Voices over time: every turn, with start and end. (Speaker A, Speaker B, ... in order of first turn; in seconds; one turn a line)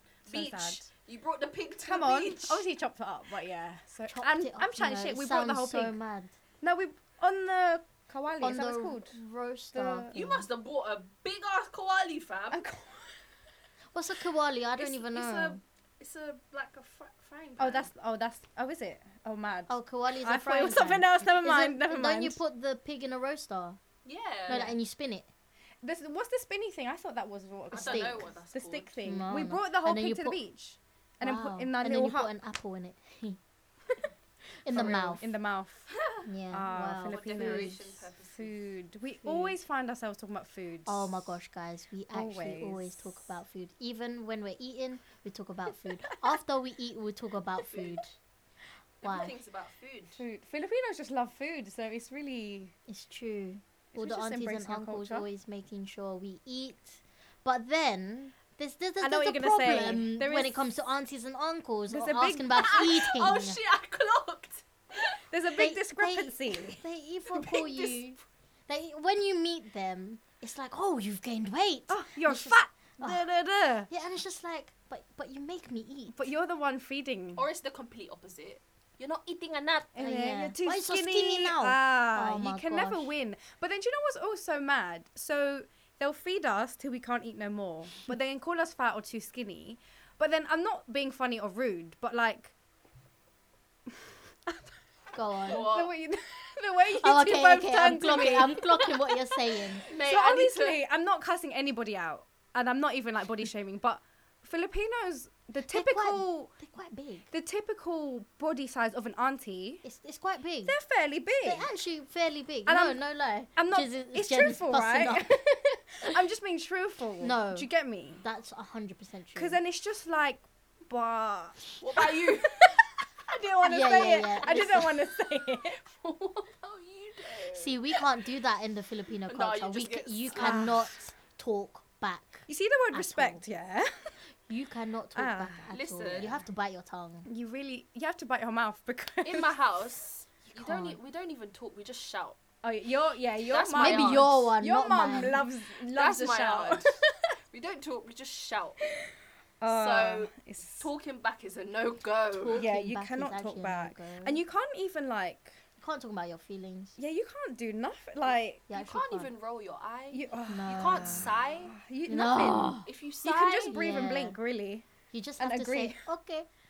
Speaker A: 0.3-0.9
Speaker B: 0.3-2.6
Speaker A: 1.8-6.0
Speaker C: 4.1-6.3
Speaker A: 6.6-9.2
Speaker C: 8.4-10.4
Speaker A: 9.7-10.1
Speaker B: 10.1-12.6
Speaker A: 12.5-13.2
Speaker C: 13.9-15.6
Speaker B: 14.8-17.9
Speaker A: 17.6-22.4
Speaker C: 19.7-23.8
Speaker B: 24.0-24.8
Speaker C: 24.5-25.3
Speaker A: 25.8-32.3
Speaker B: 27.7-28.9
Speaker C: 27.7-28.3
Speaker C: 29.0-30.4
Speaker C: 31.2-33.4
Speaker C: 34.6-35.3
Speaker A: 34.7-35.9
Speaker B: 35.9-36.2
Speaker C: 36.2-37.8
Speaker A: 36.5-41.3
Speaker B: 37.1-38.7
Speaker C: 39.2-39.6
Speaker C: 40.9-48.1
Speaker A: 42.1-43.1
Speaker B: 47.6-48.0
Speaker B: 49.0-50.2
Speaker C: 49.0-49.3
Speaker A: 50.2-52.7
Speaker C: 52.9-63.6
Speaker A: 53.9-55.3
Speaker A: 59.0-60.6
Speaker A: 61.9-62.8
Speaker B: 62.5-65.2
Speaker A: 65.3-66.8
Speaker C: 65.5-73.3
Speaker B: 67.3-68.0
Speaker A: 71.9-73.9
Speaker C: 73.9-76.3
Speaker A: 76.1-77.4
Speaker B: 77.3-80.0
Speaker A: 79.9-92.5
Speaker C: 80.0-83.1
Speaker A: 93.9-94.7
Speaker C: 95.1-95.7
Speaker A: 95.4-99.2
Speaker B: 95.4-95.9
Speaker C: 97.0-99.9
Speaker B: 99.8-100.8
Speaker A: 99.8-106.5
Speaker C: 105.7-107.3
Speaker A: 107.3-109.8
Speaker C: 109.8-110.8
Speaker A: 110.7-111.7
Speaker C: 111.4-116.2
Speaker A: 112.7-113.0
Speaker A: 113.5-118.2
Speaker C: 117.2-117.7
Speaker C: 118.2-119.6
Speaker A: 119.3-125.8
Speaker B: 121.8-122.8
Speaker C: 123.6-125.0
Speaker B: 124.4-124.8
Speaker B: 125.7-128.0
Speaker C: 127.5-133.4
Speaker B: 129.3-130.7
Speaker A: 130.3-130.9
Speaker A: 132.5-134.1
Speaker C: 134.5-137.3
Speaker A: 135.1-135.7
Speaker B: 135.7-136.4
Speaker A: 137.2-139.5
Speaker B: 139.2-142.4
Speaker C: 140.5-141.0
Speaker A: 142.6-147.0
Speaker B: 143.4-144.4
Speaker C: 143.8-145.4
Speaker B: 145.9-147.0
Speaker B: 147.5-149.0
Speaker A: 149.6-150.9
Speaker B: 149.6-152.6
Speaker C: 152.3-154.4
Speaker A: 152.5-155.6
Speaker C: 155.8-156.9
Speaker A: 157.0-158.7
Speaker C: 158.7-159.3
Speaker B: 158.7-161.7
Speaker A: 160.1-164.9
Speaker C: 160.5-161.3
Speaker C: 162.1-162.9
Speaker B: 162.8-163.8
Speaker C: 163.7-164.4
Speaker C: 165.1-166.5
Speaker A: 165.4-166.0